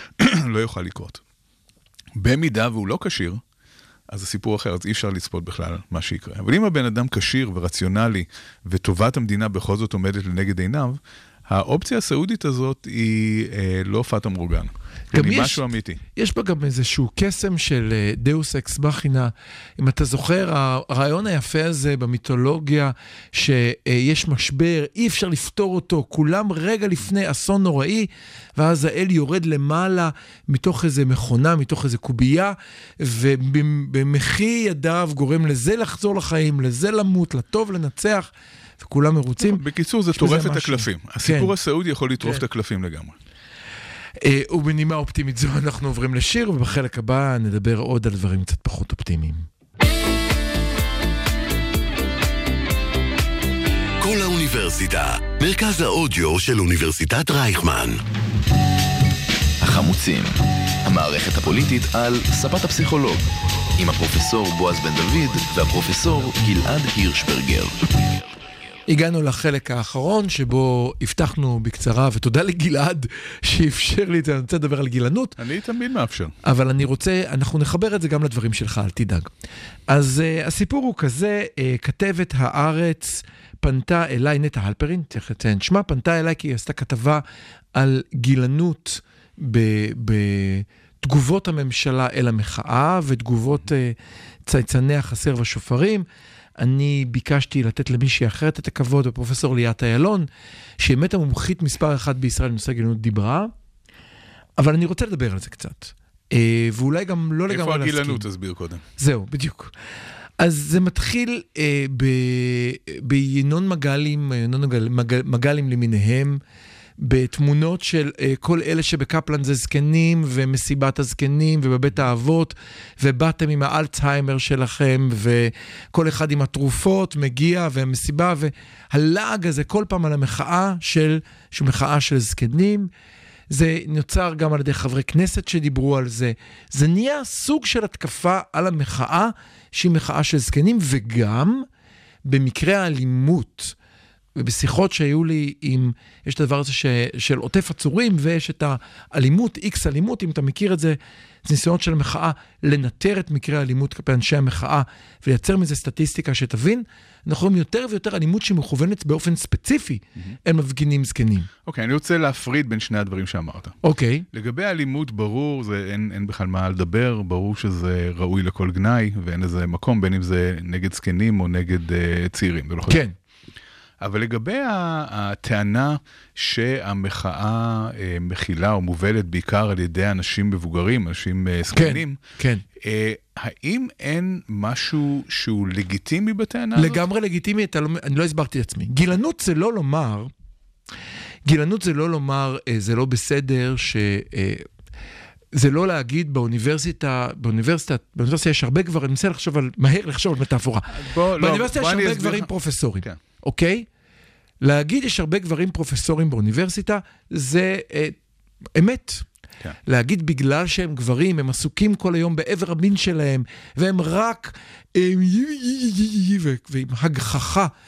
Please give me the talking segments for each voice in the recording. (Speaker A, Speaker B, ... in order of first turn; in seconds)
Speaker A: 0.2-1.2, 2.2-3.4, 4.1-16.0, 39.4-43.1, 75.4-76.3, 107.5-108.8, 161.7-163.8, 164.3-173.0, 174.0-182.2, 182.8-187.0, 200.9-203.2
Speaker B: 15.1-15.6, 16.1-39.6, 40.1-41.5, 44.2-49.5, 68.9-75.4, 76.4-79.3, 79.9-87.2, 87.7-96.0, 96.6-100.3, 100.8-103.5, 104.6-108.2, 109.0-109.7, 110.4-116.4, 117.0-132.9, 133.5-141.7, 142.2-143.8, 144.4-161.5, 163.8-164.2, 172.9-173.1, 181.7-182.6, 186.8-190.3, 191.4-194.7, 195.5-203.9, 204.6-208.2, 208.8-209.3, 209.9-217.7
Speaker C: 54.0-58.0
Speaker D: 59.6-63.2, 63.8-68.0